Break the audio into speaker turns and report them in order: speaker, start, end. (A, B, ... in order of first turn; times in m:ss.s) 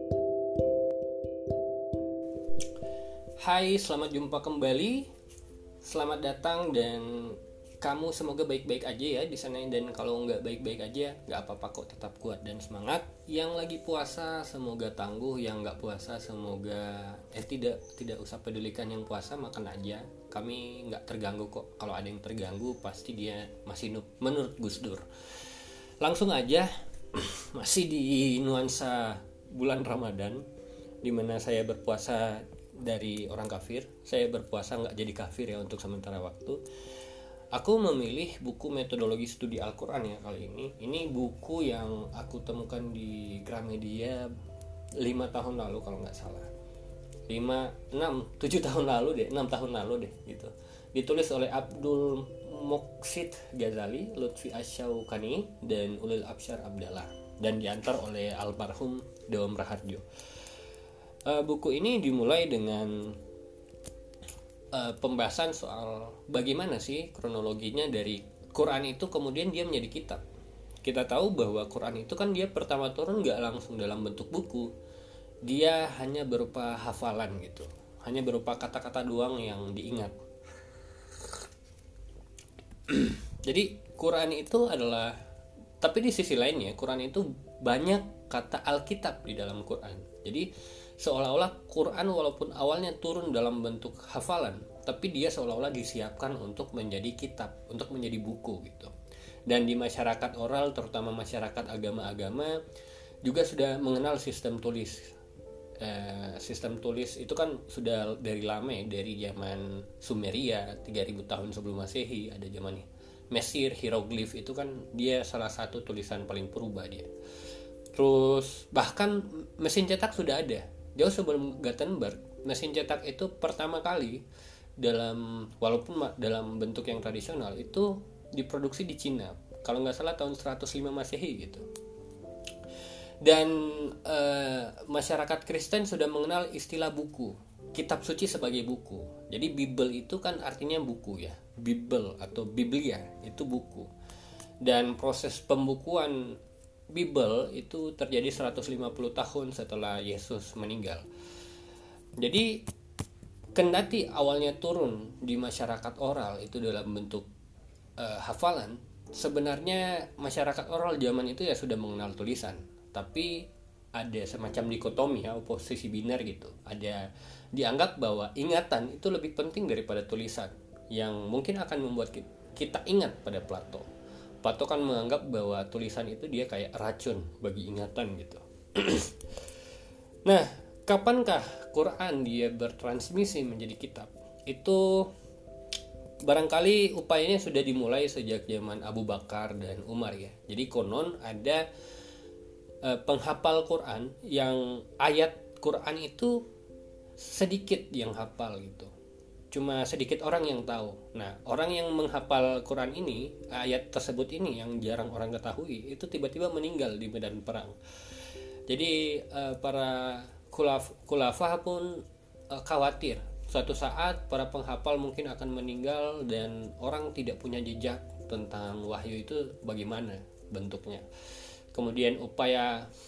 0:03.4-0:05.1 A
0:05.8-0:25.0 A
0:26.0-0:30.4 A
0:31.0-0:36.6 A
0:37.5-0:44.3 A
0:45.0-0:46.5 A
0:47.3-1:00.0 A
1:01.2-1:03.1 A
1:04.7-1:10.2 A
1:10.8-1:14.7 A
1:15.4-1:20.2 A
1:22.9-1:25.2 A
1:25.8-1:30.5 A
1:31.0-1:38.9 A
1:39.5-1:42.6 A
1:43.2-1:45.1 A
1:45.8-1:57.1 A
1:57.9-2:04.2 A
2:04.8-2:11.6 A
2:13.2-2:23.9 A
2:24.6-2:26.4 A
2:26.9-2:31.0 A
2:32.2-2:32.6 A
2:33.5-2:37.3 A
2:38.0-2:43.4 A
2:44.0-2:47.0 A
2:47.5-2:53.9 A
2:54.4-2:59.1 A
3:00.2-3:05.1 A
3:06.2-3:11.6 A
3:12.8-3:16.4 A
3:17.2-3:18.9 A
3:19.5-3:27.7 A
3:28.7-3:41.0 A
3:41.7-3:42.9 A